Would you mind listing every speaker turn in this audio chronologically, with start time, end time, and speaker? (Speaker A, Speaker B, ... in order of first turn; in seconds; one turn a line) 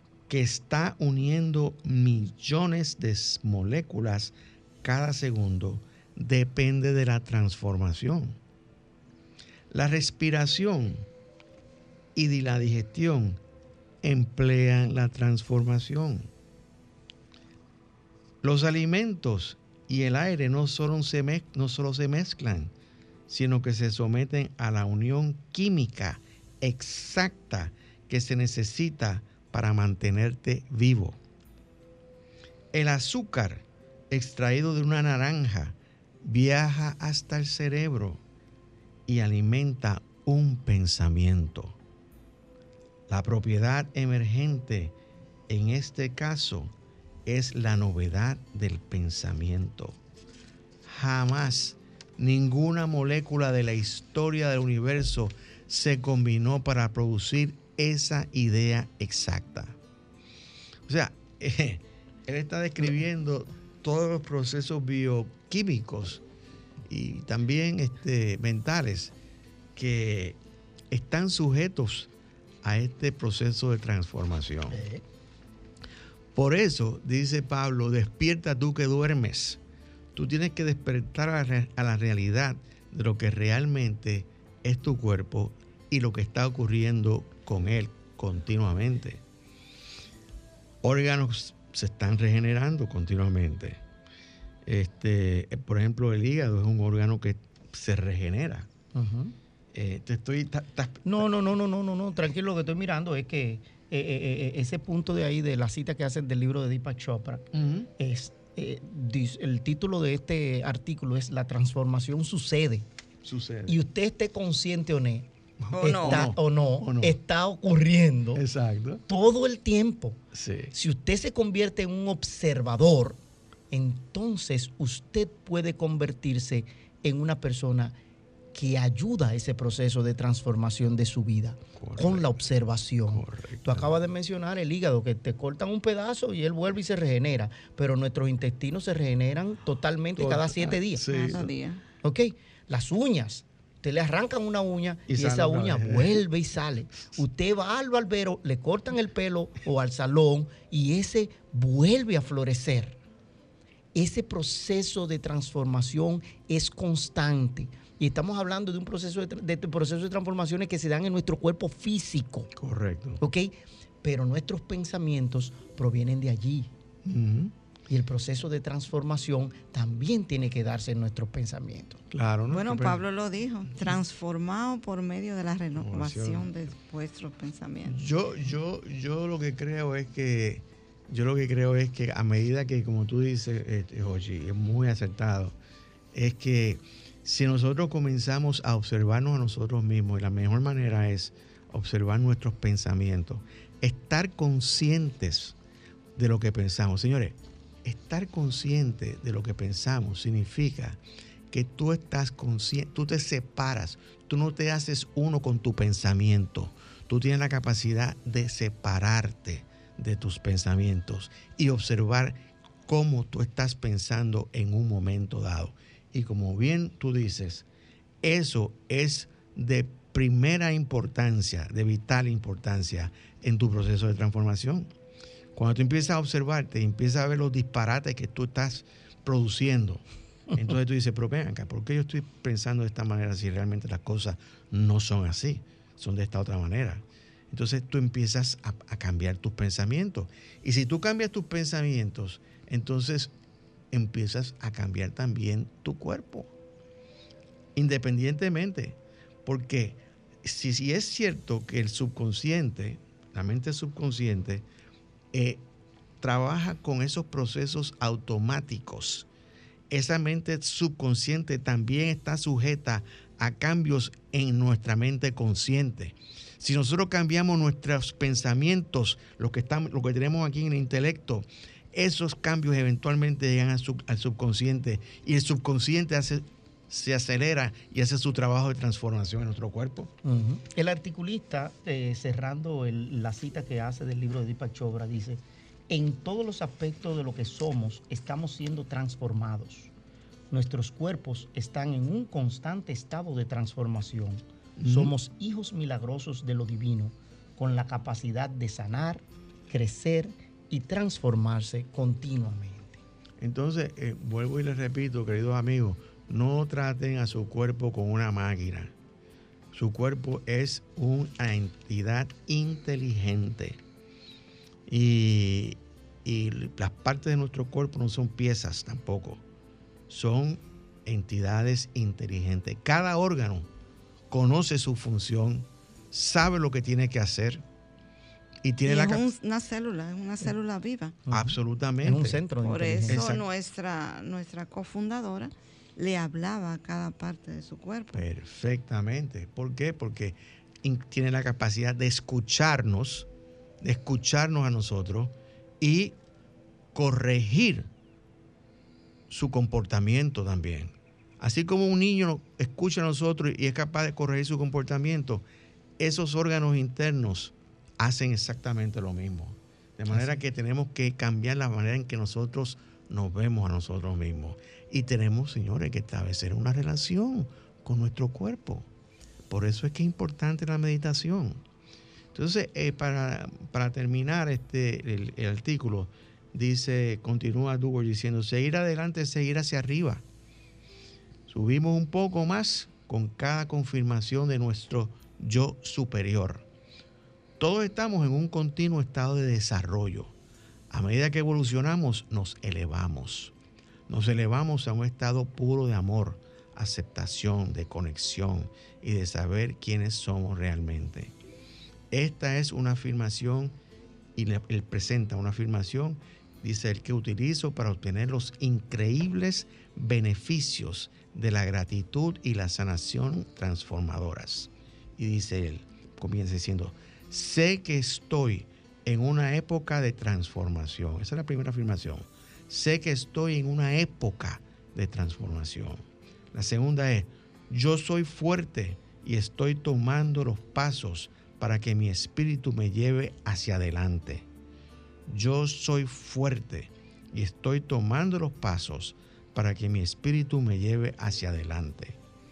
Speaker A: 0.3-8.4
Speaker A: 9.7-11.1
Speaker A: 12.2-13.4
Speaker A: 14.0-16.3
Speaker A: 18.4-22.7
Speaker A: 23.3-31.2
Speaker A: 32.7-38.2
Speaker A: 39.1-41.8
Speaker A: 43.1-45.0
Speaker A: 45.5-46.7
Speaker A: 47.3-50.0
Speaker A: 50.9-59.8
Speaker A: 60.9-66.2
Speaker A: 66.9-69.1
Speaker A: 69.8-70.4
Speaker A: 70.9-72.1
Speaker A: 72.6-74.8
Speaker B: 74.7-75.0
Speaker A: 76.3-79.6
Speaker A: 80.1-89.2
Speaker A: 90.8-93.8
Speaker A: 94.7-98.7
Speaker B: 98.9-99.3
Speaker A: 99.7-101.3
Speaker B: 101.0-112.9
Speaker A: 107.5-107.9
Speaker A: 113.2-113.8
Speaker B: 113.7-118.4
Speaker A: 115.6-117.2
Speaker C: 115.7-116.3
Speaker A: 118.3-119.0
Speaker B: 119.1-123.2
Speaker A: 120.3-120.7
Speaker B: 123.7-128.0
Speaker B: 128.5-141.1
Speaker A: 131.8-132.4
Speaker A: 133.1-134.0
Speaker A: 140.2-141.5
Speaker C: 141.1-141.8
Speaker B: 142.0-153.0
Speaker A: 145.1-146.2
Speaker B: 153.9-162.5
Speaker A: 162.6-163.2
Speaker B: 163.2-166.7
Speaker A: 167.1-167.5
Speaker B: 167.9-172.0
Speaker A: 172.1-173.0
Speaker C: 172.5-178.0
Speaker A: 175.8-176.5
Speaker A: 177.8-185.6
Speaker A: 186.1-195.6
Speaker A: 196.2-217.7
Speaker A: 218.2-224.9
Speaker A: 225.6-243.3
Speaker A: 243.9-246.5
Speaker A: 247.8-254.7
Speaker A: 255.3-255.6
Speaker A: 256.2-259.3
Speaker A: 259.9-280.1
Speaker B: 280.2-289.9
Speaker B: 290.5-303.0
Speaker A: 294.8-295.1
Speaker A: 303.4-308.9
Speaker A: 309.7-313.8
Speaker A: 314.9-319.4
Speaker A: 320.1-323.7
Speaker A: 324.3-327.6
Speaker A: 328.6-329.2
Speaker C: 328.9-331.2
Speaker B: 331.3-333.2
Speaker A: 331.3-332.4
Speaker C: 332.6-338.2
Speaker A: 333.1-333.4
Speaker A: 338.1-343.3
Speaker A: 343.8-346.2
Speaker A: 346.9-347.9
Speaker A: 349.3-355.4
Speaker A: 356.0-368.9
Speaker B: 360.1-360.4
Speaker A: 369.5-371.6
Speaker A: 372.3-380.2
Speaker A: 381.5-386.6
Speaker A: 387.6-390.3
Speaker A: 390.9-393.6
Speaker A: 394.1-401.3
Speaker A: 402.1-403.8
Speaker A: 404.4-434.5
Speaker A: 435.3-442.2